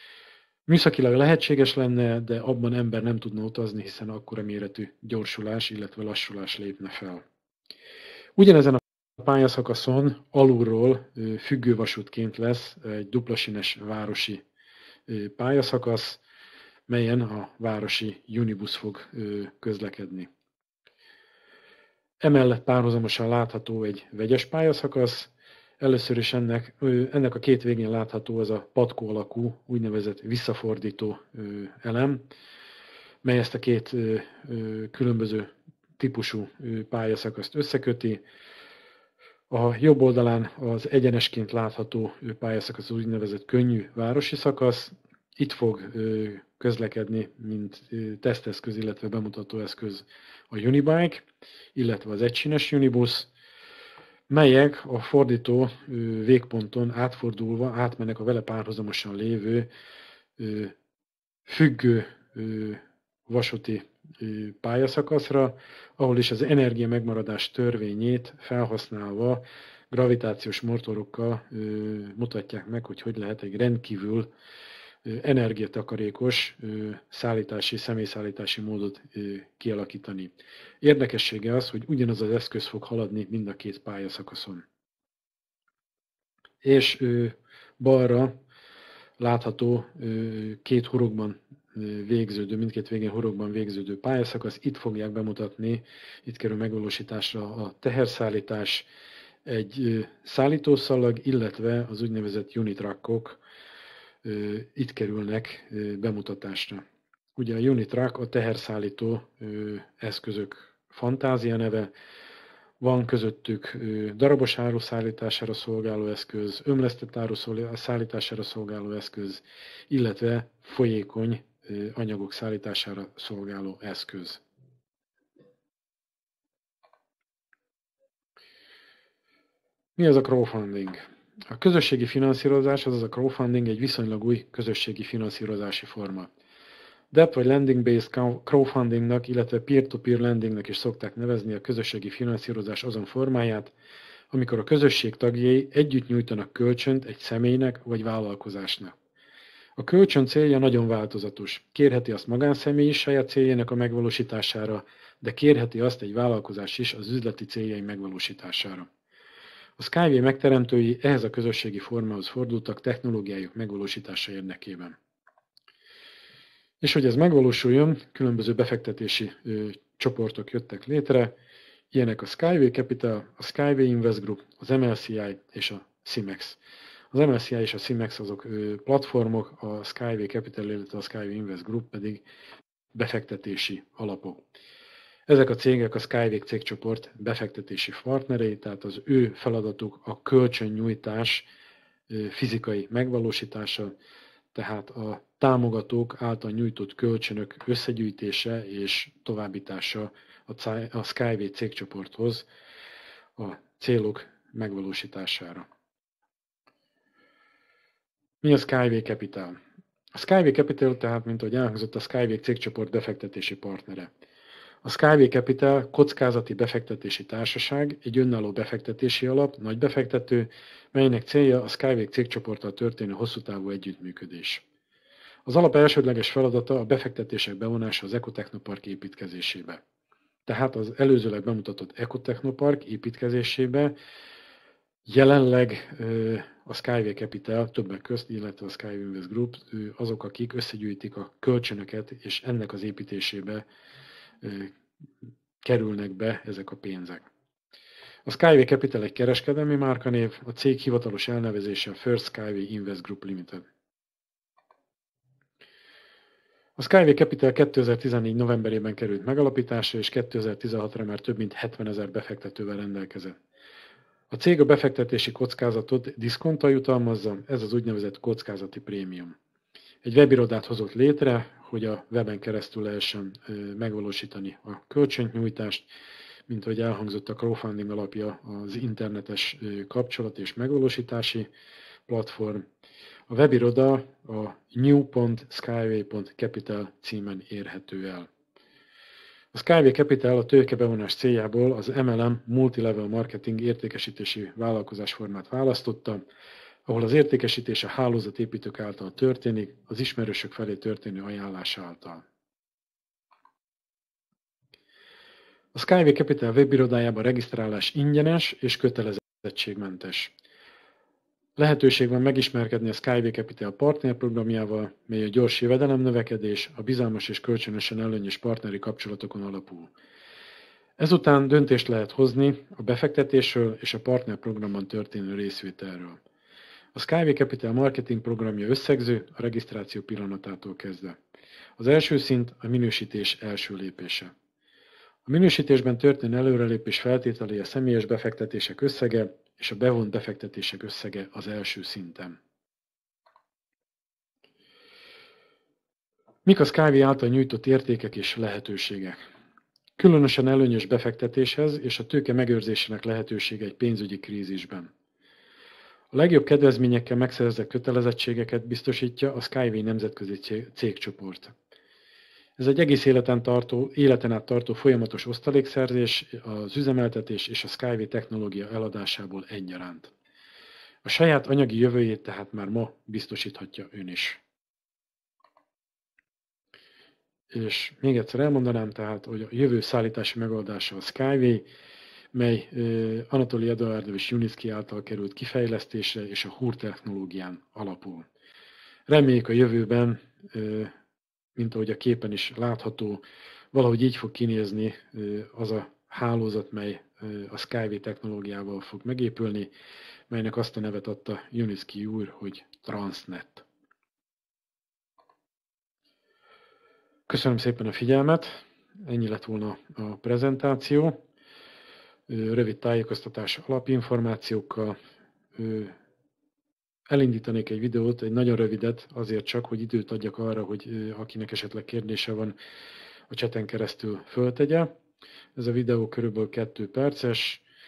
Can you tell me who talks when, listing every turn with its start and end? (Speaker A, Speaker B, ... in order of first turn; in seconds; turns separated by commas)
Speaker A: 0.7-7.2, Speaker A: 8.4-14.4, Speaker A: 15.1-16.2, Speaker A: 16.9-20.3, Speaker A: 22.2-32.3, Speaker A: 33.2-38.2, Speaker A: 39.5-53.3, Speaker A: 54.3-59.7, Speaker A: 60.4-60.7, Speaker A: 61.5-74.3, Speaker A: 75.0-84.6, Speaker A: 86.6-88.3, Speaker A: 89.2-98.9, Speaker A: 99.4-103.4, Speaker A: 104.2-106.8, Speaker A: 107.3-111.9, Speaker A: 112.8-124.4, Speaker A: 130.0-136.3, Speaker A: 137.1-143.7, Speaker A: 144.3-148.9, Speaker A: 149.8-158.9, Speaker A: 159.8-164.9, Speaker A: 166.8-171.3, Speaker A: 171.9-176.6, Speaker A: 177.1-182.2, Speaker A: 182.9-184.4, Speaker A: 185.3-191.5, Speaker A: 192.1-193.9, Speaker A: 194.5-202.5, Speaker A: 203.4-205.7, Speaker A: 208.4-209.6, Speaker A: 210.1-214.1, Speaker A: 214.8-224.6, Speaker A: 225.4-229.8, Speaker A: 230.4-233.9, Speaker A: 235.1-243.7, Speaker A: 244.4-244.8, Speaker A: 245.6-247.3, Speaker A: 248.2-253.6, Speaker A: 256.8-263.4, Speaker A: 264.3-269.4, Speaker A: 270.0-275.9, Speaker A: 276.5-281.5, Speaker A: 282.1-282.6, Speaker A: 283.3-288.3, Speaker A: 289.5-296.2, Speaker A: 296.9-302.2, Speaker A: 305.7-310.3, Speaker A: 311.6-319.9, Speaker A: 321.0-326.2, Speaker A: 326.9-331.2, Speaker A: 331.8-334.3, Speaker A: 335.2-342.4, Speaker A: 346.4-349.2, Speaker A: 350.0-354.9, Speaker A: 356.1-361.5, Speaker A: 362.6-370.1, Speaker A: 371.0-374.4, Speaker A: 377.5-381.6, Speaker A: 382.3-388.3, Speaker A: 389.1-390.9, Speaker A: 391.6-399.7, Speaker A: 400.3-403.6, Speaker A: 407.3-411.2, Speaker A: 412.3-415.0, Speaker A: 415.5-416.0, Speaker A: 417.1-422.6, Speaker A: 423.3-424.9, Speaker A: 425.6-427.6